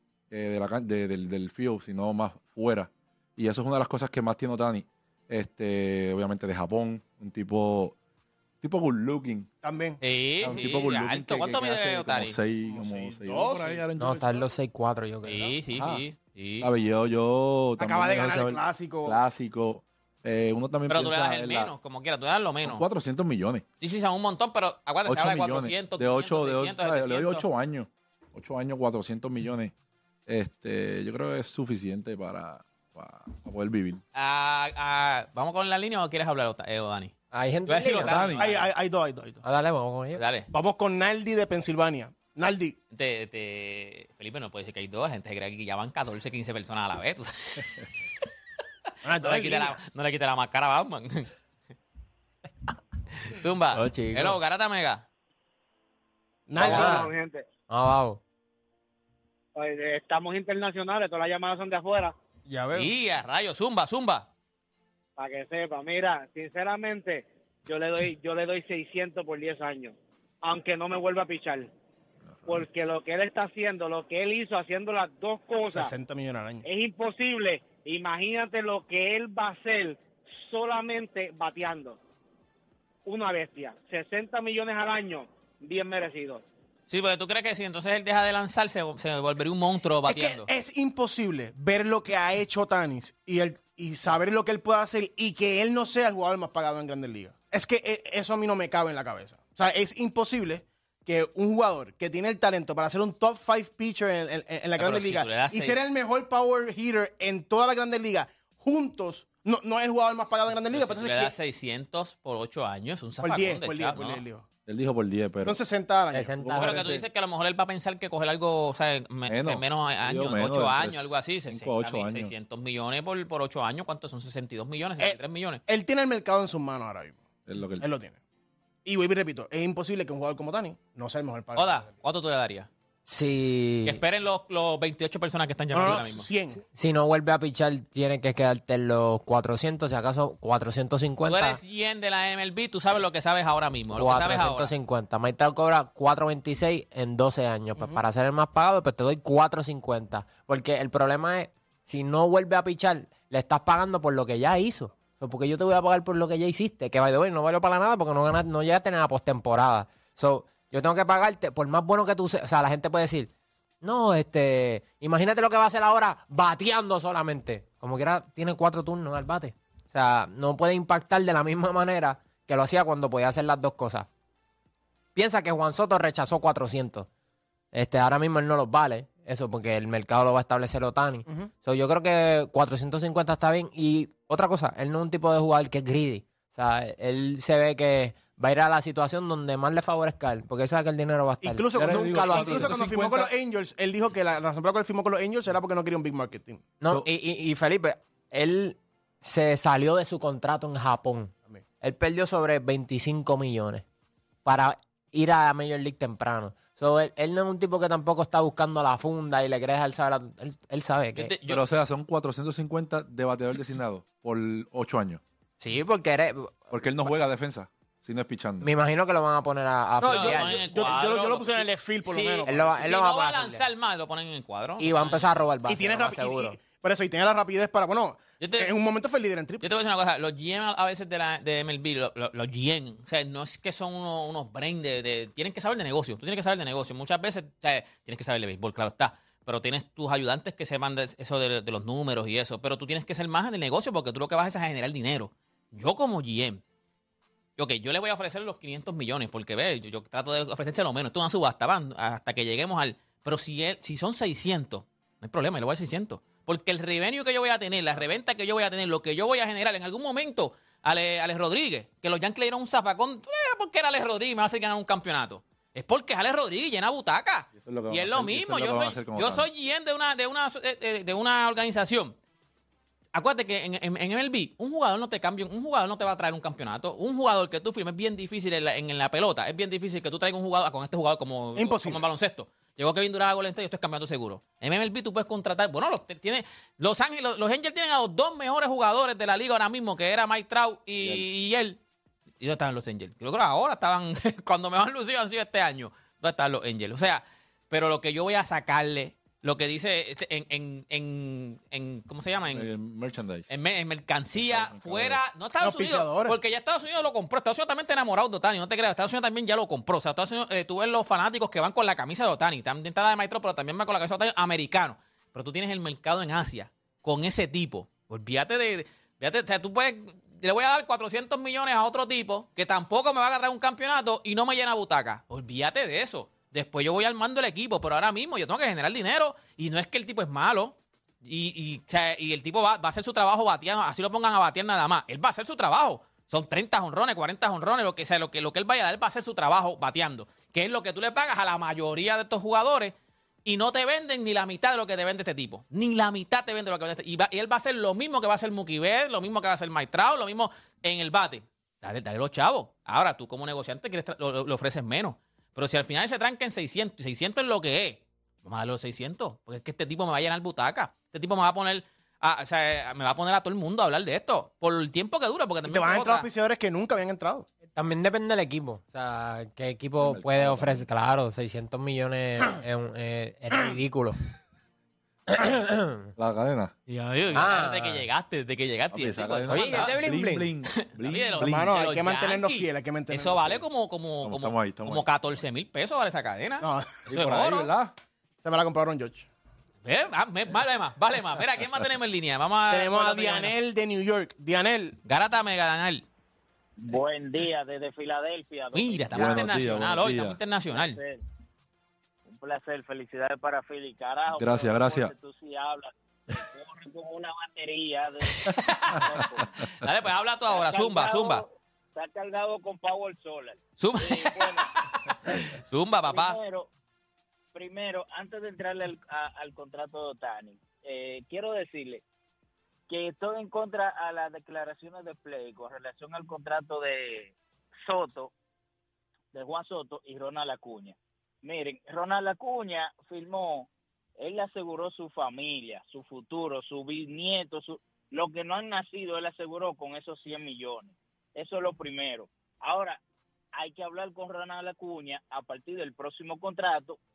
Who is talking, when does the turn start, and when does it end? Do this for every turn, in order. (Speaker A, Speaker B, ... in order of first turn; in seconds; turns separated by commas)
Speaker A: 0.3-8.0, Speaker A: 8.6-9.5, Speaker B: 9.6-10.0, Speaker C: 10.0-12.4, Speaker A: 10.4-14.5, Speaker B: 12.7-13.8, Speaker D: 14.0-15.6, Speaker C: 15.2-16.7, Speaker A: 15.8-16.0, Speaker A: 16.6-21.7, Speaker B: 17.8-19.2, Speaker C: 20.9-22.9, Speaker A: 22.6-23.6, Speaker C: 23.8-27.5, Speaker A: 25.1-29.7, Speaker A: 30.3-34.0, Speaker C: 34.1-37.1, Speaker D: 37.3-38.2, Speaker C: 37.7-38.6, Speaker A: 38.0-38.5, Speaker B: 38.4-39.4, Speaker D: 39.4-40.2, Speaker C: 40.1-40.5, Speaker B: 40.5-42.8, Speaker C: 42.9-47.7, Speaker B: 49.0-49.8, Speaker C: 49.1-51.3, Speaker C: 53.1-55.1, Speaker D: 53.8-54.4, Speaker B: 56.5-57.1, Speaker E: 56.6-57.5, Speaker D: 56.6-57.1, Speaker D: 57.7-58.2, Speaker E: 59.5-62.1, Speaker B: 62.5-62.9, Speaker C: 62.7-64.3, Speaker E: 65.2-71.7, Speaker A: 72.3-72.6, Speaker E: 72.5-75.9, Speaker B: 75.6-76.7, Speaker E: 76.6-82.0, Speaker E: 83.0-86.4, Speaker C: 86.9-90.5, Speaker B: 90.1-111.3, Speaker C: 104.8-105.8, Speaker C: 110.7-114.2, Speaker B: 113.2-114.5, Speaker A: 114.7-115.6, Speaker B: 115.4-116.4, Speaker D: 116.1-116.9, Speaker A: 116.4-117.0, Speaker C: 116.6-125.6, Speaker A: 119.3-122.3, Speaker B: 125.0-127.2, Speaker A: 127.5-127.9, Speaker B: 127.8-128.2, Speaker B: 128.8-131.9, Speaker C: 131.6-132.7, Speaker D: 133.1-134.0, Speaker C: 133.9-136.3, Speaker B: 135.7-136.6, Speaker D: 136.7-141.6, Speaker C: 141.3-144.7, Speaker D: 143.9-174.1, Speaker D: 175.1-177.1, Speaker D: 177.7-192.8, Speaker B: 191.4-196.6, Speaker A: 191.7-193.3, Speaker D: 196.8-203.8, Speaker D: 204.4-211.3, Speaker C: 211.2-211.6, Speaker A: 211.5-215.2, Speaker D: 215.6-216.8, Speaker A: 216.7-218.7, Speaker D: 218.6-220.6, Speaker B: 220.0-222.9, Speaker C: 220.1-225.2, Speaker D: 222.5-223.6, Speaker D: 224.8-226.6, Speaker B: 225.7-229.7, Speaker C: 228.4-228.7, Speaker C: 229.6-246.6, Speaker C: 247.6-272.1, Speaker A: 267.6-269.5, Speaker C: 273.1-291.8, Speaker B: 281.6-282.0, Speaker C: 292.4-302.7, Speaker A: 302.5-303.5, Speaker C: 303.5-342.9, Speaker A: 304.3-305.2, Speaker B: 305.6-306.4, Speaker C: 343.4-366.3, Speaker B: 365.6-367.5, Speaker D: 367.8-374.2, Speaker A: 370.0-370.9, Speaker D: 375.3-376.1, Speaker A: 376.2-376.7, Speaker C: 376.9-380.0, Speaker D: 377.3-378.0, Speaker A: 378.9-381.7, Speaker D: 379.5-380.5, Speaker C: 380.7-387.7, Speaker B: 381.4-383.6, Speaker A: 384.2-385.4, Speaker B: 386.6-387.0, Speaker A: 387.1-387.9, Speaker B: 388.4-389.3, Speaker C: 389.9-393.6, Speaker B: 392.7-395.0, Speaker C: 395.1-396.1, Speaker F: 396.8-399.8, Speaker C: 398.7-401.0, Speaker A: 399.1-400.4, Speaker F: 400.7-401.2, Speaker F: 402.2-409.6, Speaker A: 404.4-405.1, Speaker C: 408.4-409.1, Speaker C: 409.7-411.4, Speaker F: 410.5-415.5, Speaker C: 413.8-416.4, Speaker F: 416.1-416.7, Speaker F: 417.5-422.0, Speaker F: 422.9-428.3, Speaker F: 429.3-443.0, Speaker F: 443.6-447.0